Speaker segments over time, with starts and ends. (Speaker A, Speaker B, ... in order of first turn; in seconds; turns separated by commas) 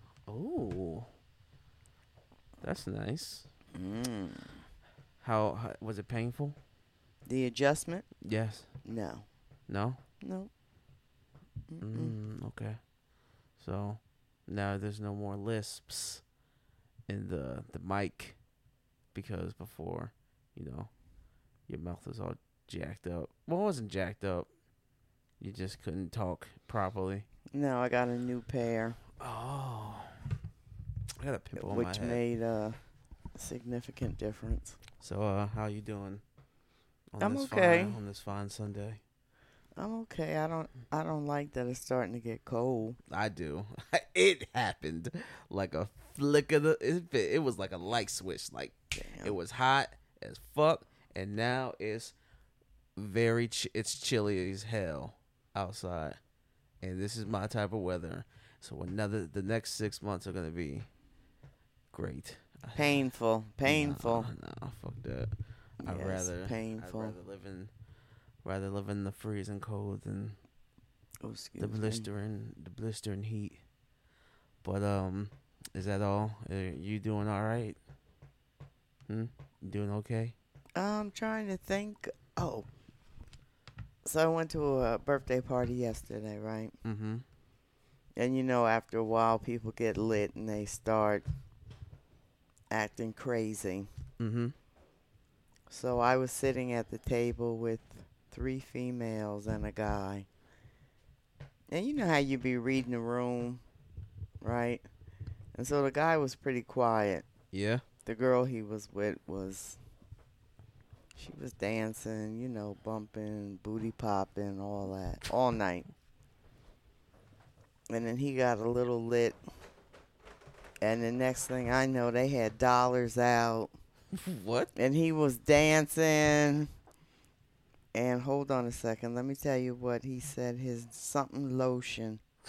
Speaker A: 0.3-1.1, Speaker A: 2.6-3.4, Speaker B: 3.7-4.5, Speaker A: 5.2-6.5, Speaker B: 7.2-8.1, Speaker A: 8.2-8.7, Speaker B: 8.8-9.2, Speaker A: 9.7-10.0, Speaker B: 10.2-10.5, Speaker B: 11.7-12.1, Speaker A: 11.8-12.8, Speaker A: 13.6-16.2, Speaker A: 17.1-18.4, Speaker A: 19.1-20.9, Speaker A: 21.7-24.5, Speaker A: 25.4-27.2, Speaker B: 27.5-29.0, Speaker A: 29.2-30.1, Speaker A: 31.2-32.2, Speaker B: 31.6-32.8, Speaker B: 33.4-34.8, Speaker A: 35.0-36.2, Speaker A: 37.1-39.0, Speaker B: 37.2-38.0, Speaker B: 39.8-43.0, Speaker A: 43.1-52.1, Speaker B: 48.9-49.4, Speaker A: 53.0-56.2, Speaker A: 56.8-60.9, Speaker A: 61.9-63.0, Speaker B: 62.7-64.3, Speaker A: 63.6-67.7, Speaker B: 65.8-67.2, Speaker A: 68.4-70.4, Speaker B: 71.2-72.1, Speaker A: 71.6-73.6, Speaker A: 74.6-77.8, Speaker A: 79.1-80.3, Speaker B: 80.7-82.7, Speaker B: 84.0-86.7, Speaker A: 86.8-87.2, Speaker B: 88.2-91.2, Speaker B: 92.7-93.9, Speaker A: 94.2-94.5, Speaker B: 95.7-100.3, Speaker B: 101.7-103.6, Speaker B: 104.4-104.8, Speaker B: 105.5-107.2, Speaker A: 107.5-107.8, Speaker B: 108.0-109.8, Speaker B: 111.2-115.8, Speaker B: 117.9-119.4, Speaker B: 120.8-123.7, Speaker A: 124.1-124.7, Speaker B: 124.7-126.7, Speaker B: 127.9-132.2